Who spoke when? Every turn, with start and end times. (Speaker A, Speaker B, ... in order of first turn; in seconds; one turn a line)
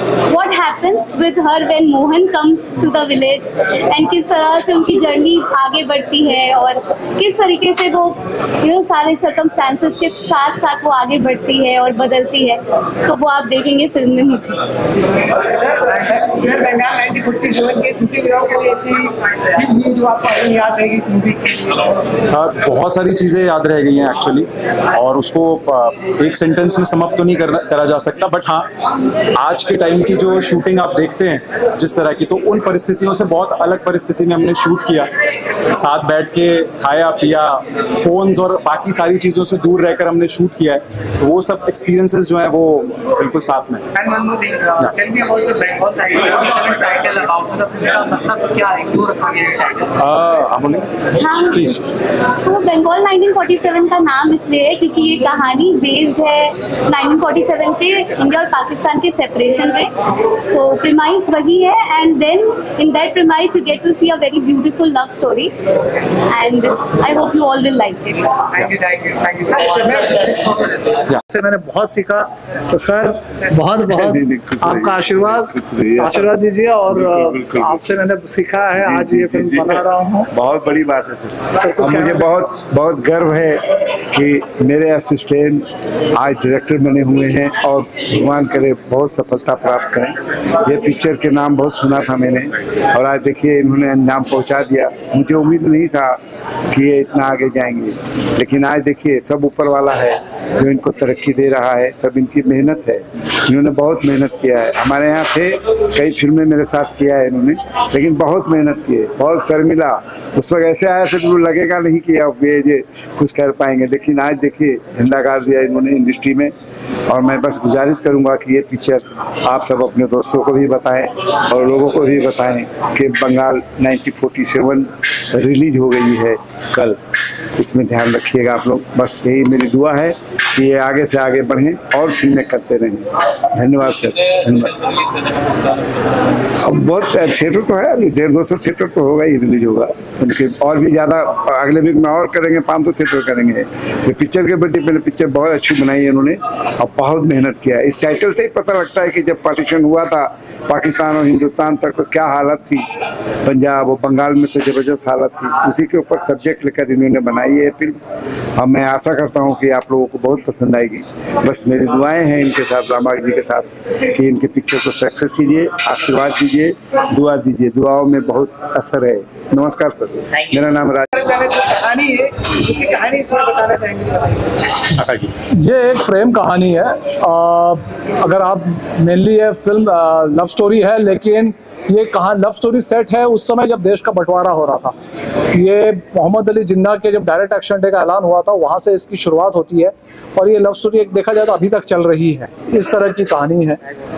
Speaker A: 0.3-14.7
Speaker B: 15.5-21.6
Speaker C: 22.3-28.7
Speaker C: 29.4-35.1
Speaker C: 35.7-43.8
Speaker B: 44.0-49.5
Speaker C: 50.0-50.9
Speaker A: 51.1-65.5
Speaker A: 66.3-68.6
Speaker B: 68.8-70.6
Speaker D: 71.1-80.3
Speaker E: 73.9-76.3
Speaker E: 76.9-77.8
Speaker E: 78.8-79.8
Speaker E: 80.3-85.7
Speaker D: 81.6-82.3
Speaker E: 86.2-96.2
Speaker E: 96.7-116.5
Speaker E: 117.1-127.0
Speaker E: 127.6-134.9
Speaker E: 136.6-152.8
Speaker E: 153.4-158.0
Speaker E: 158.6-171.1
Speaker B: 171.2-174.4
Speaker C: 175.0-175.3
Speaker D: 175.5-185.0
Speaker D: 185.5-193.8